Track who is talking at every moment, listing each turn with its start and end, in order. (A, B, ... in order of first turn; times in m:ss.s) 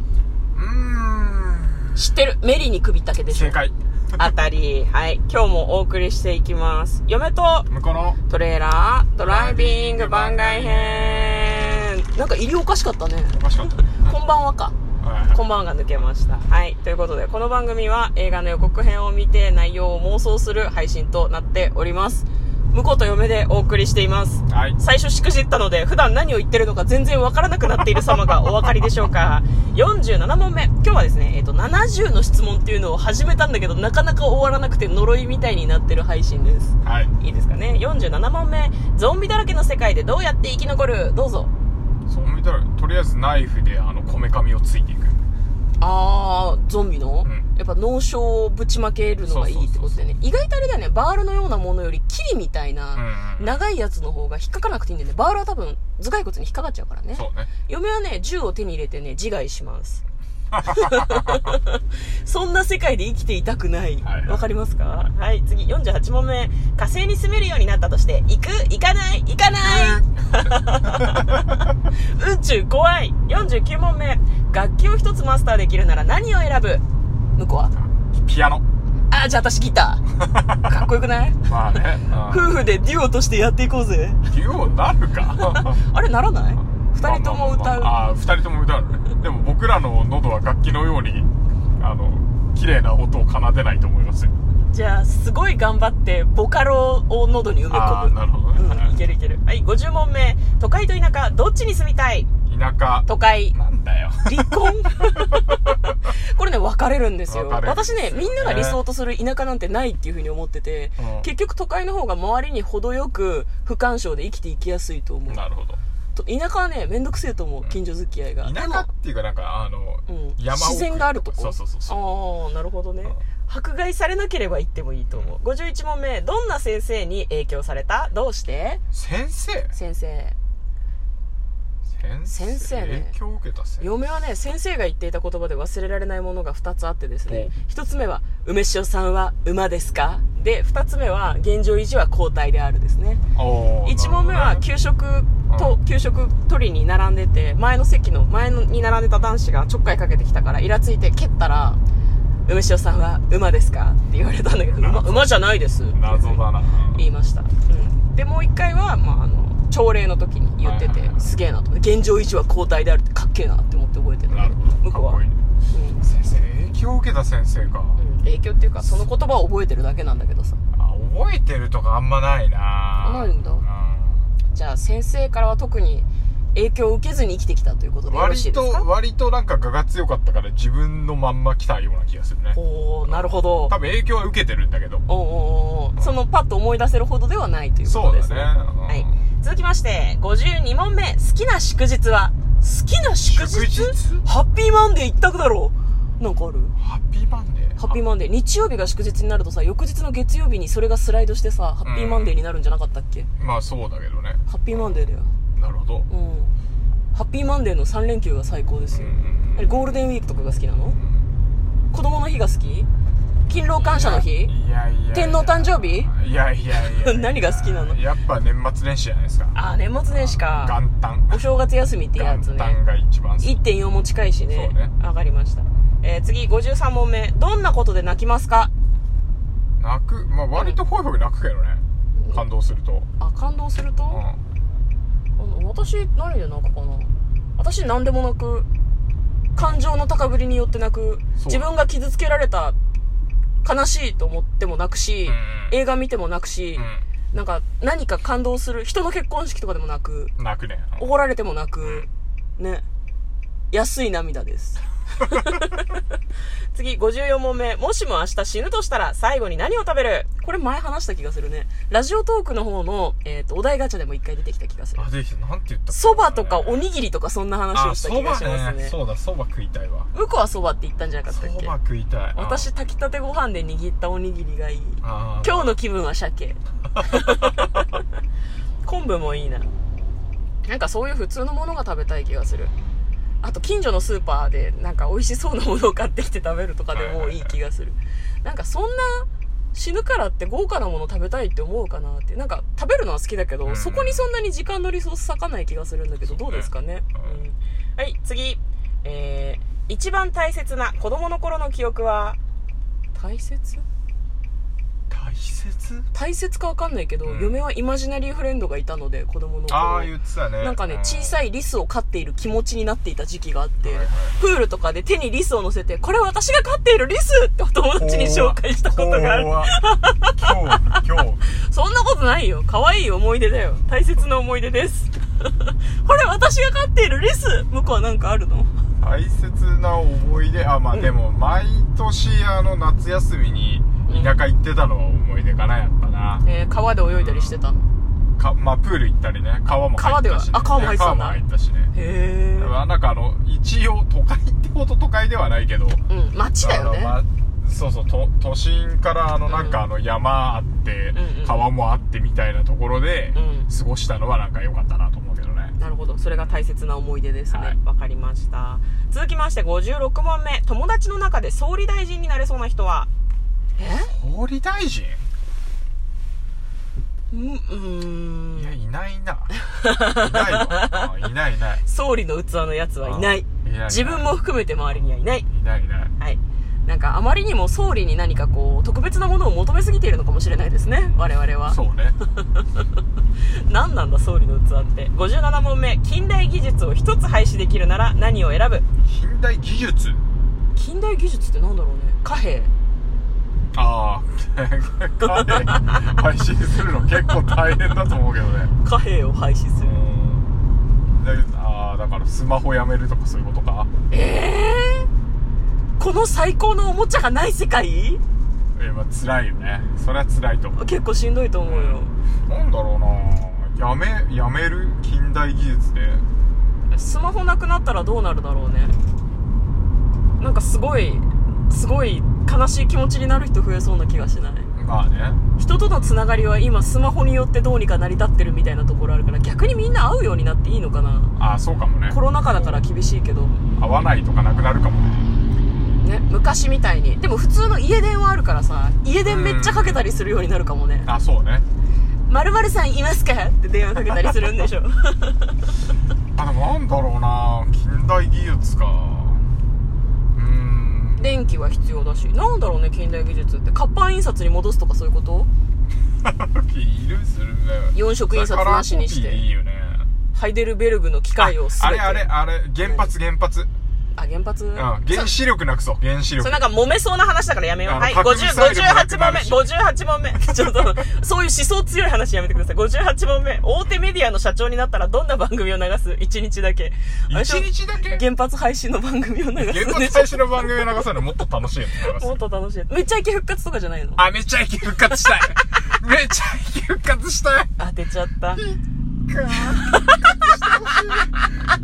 0:00.5-0:02.0 A
0:01.9-0:03.6 B
0:03.3-0:04.2 A
0:04.2-0:07.7 B
0:07.7-0:08.2 A
0:08.3-0:14.8 B
0:09.2-0:11.9 A
0:13.3-0:14.2 A
0:15.0-0:15.4 A
0:15.3-0:41.5 B
0:24.5-0:24.8 A
0:36.8-0:37.1 A
0:42.1-0:45.2 A
0:45.8-1:00.0 B
0:49.2-0:50.1 A
0:52.9-0:53.6 A
0:57.1-0:57.5 A
1:00.5-1:01.5 A
1:00.7-1:16.8 B
1:04.0-1:04.4 A
1:09.6-1:11.6 A
1:17.4-1:17.7 B
1:17.7-1:18.6 A
1:19.1-1:20.0 B
1:20.2-1:20.6 A
1:20.6-1:24.2 B
1:21.4-1:22.6 A
1:24.3-1:25.8 A
1:25.4-1:27.9 B
1:26.6-1:31.3 A
1:31.8-1:34.3 A
1:34.7-1:42.3 B
1:37.7-1:39.0 A
1:42.5-1:45.7 A
1:43.1-1:43.6 B
1:44.2-1:55.4 B
1:47.3-1:48.8 A
1:51.0-1:51.3 A
1:55.3-1:55.8 A
1:56.1-1:58.9 B
1:58.4-2:02.0 A
2:00.1-2:08.8 B
2:05.1-2:05.4 A
2:08.9-2:09.7 A
2:09.7-2:10.3 B
2:12.0-2:13.9 A
2:12.3-2:13.1 B
2:13.8-2:23.2 B
2:23.3-2:24.6 A
2:23.8-2:31.8 B
2:25.5-2:25.8 A
2:32.4-2:46.0 B
2:34.5-2:35.4 A
2:35.9-2:37.0 A
2:40.6-2:41.3 A
2:44.3-2:45.4 A
2:46.0-2:48.0 A
2:48.0-2:50.6 B
2:50.7-2:54.3 A
2:53.0-2:53.6 B
2:54.5-2:58.8 B
2:58.1-3:05.0 A
3:02.5-3:03.7 B
3:05.1-3:16.7 B
3:07.8-3:09.2 A
3:13.3-3:14.2 A
3:16.8-3:18.0 A
3:17.8-3:23.3 B
3:21.8-3:22.4 A
3:23.4-3:26.1 A
3:24.5-3:25.3 B
3:26.1-3:26.5 B
3:27.1-3:31.0 B
3:28.9-3:29.9 A
3:31.0-3:31.3 A
3:31.9-3:32.9 B
3:33.5-3:34.5 B
3:33.8-3:39.6 A
3:35.1-3:36.1 B
3:36.7-3:38.0 B
3:39.5-3:40.8 B
3:40.1-3:41.4 A
3:41.3-3:42.8 B
3:42.1-3:43.6 A
3:43.4-3:48.7 B
3:44.5-3:44.9 A
3:49.8-3:53.1 A
3:53.2-3:54.2 B
3:54.1-3:54.4 A
3:55.4-3:58.7 B
3:59.5-4:02.8 B
3:59.6-3:59.8 A
4:01.4-4:01.6 A
4:03.6-4:10.3 B
4:05.2-4:05.8 A
4:06.8-4:07.0 A
4:10.4-4:11.1 A
4:11.0-4:12.8 B
4:13.7-4:16.0 B
4:16.7-4:25.1 B
4:25.0-4:26.8 A
4:25.9-4:29.0 B
4:27.7-4:30.1 A
4:30.1-4:31.7 B
4:31.3-4:32.7 A
4:32.3-4:38.0 B
4:35.0-4:35.8 A
4:36.9-4:37.8 A
4:38.8-4:39.7 B
4:40.6-4:42.7 B
4:43.4-5:02.4 B
4:46.9-4:47.6 A
4:53.6-4:54.3 A
4:56.2-4:57.4 A
5:03.1-5:03.8 B
5:05.1-5:06.1 A
5:06.1-5:20.8 B
5:07.2-5:07.6 A
5:09.7-5:11.4 A
5:13.8-5:14.4 A
5:18.0-5:19.7 A
5:20.3-5:21.4 A
5:21.6-5:28.7 B
5:29.0-5:36.4 A
5:34.1-5:34.4 B
5:36.4-5:37.9 B
5:37.1-5:37.6 A
5:38.4-5:41.9 A
5:40.0-5:41.4 B
5:41.9-5:42.7 B
5:42.6-5:46.0 A
5:46.1-5:47.2 B
5:46.6-5:55.7 A
5:49.5-5:49.8 B
5:51.1-5:51.6 B
5:53.3-5:53.7 B
5:55.8-6:03.1 B
5:57.5-5:57.8 A
6:03.8-6:04.1 B
6:04.0-6:05.2 A
6:07.3-6:08.7 B
6:08.5-6:11.8 A
6:09.6-6:11.1 B
6:11.8-6:15.4 B
6:13.0-6:14.3 A
6:14.9-6:16.1 A
6:16.2-6:21.8 B
6:20.8-6:22.2 A
6:22.4-6:22.8 B
6:23.4-6:28.8 B
6:29.0-6:30.2 A
6:30.7-6:32.7 B
6:33.7-6:38.7 A
6:35.2-6:36.0 B
6:38.8-6:40.0 B
6:39.8-6:40.5 A
6:41.1-6:43.9 A
6:44.1-6:45.1 B
6:46.0-6:48.2 B
6:48.8-6:50.8 A
6:50.8-6:52.1 B
6:51.6-6:56.2 A
6:56.9-6:58.9 B
7:00.4-7:04.7 B
7:04.8-7:06.2 A
7:05.6-7:11.3 B
7:11.4-7:12.8 A
7:12.1-7:13.6 B
7:13.8-7:15.3 A
7:16.0-7:21.1 B
7:19.2-7:20.0 A
7:21.0-7:21.6 A
7:22.3-7:25.5 B
7:26.3-7:29.4 A
7:30.3-7:31.3 A
7:31.2-7:35.5 B
7:36.2-7:40.1 A
7:37.9-7:39.4 B
7:40.3-7:42.3 B
7:41.4-7:43.7 A
7:42.8-7:43.1 B
7:44.1-7:45.3 B
7:44.7-7:46.6 A
7:46.4-8:01.2 B
7:47.8-7:49.7 A
7:50.4-7:50.8 A
7:57.3-7:58.2 A
7:59.6-8:02.4 A
8:01.9-8:04.2 B
8:04.2-8:07.7 A
8:07.8-8:08.6 B
8:08.5-8:11.4 A
8:09.6-8:10.5 B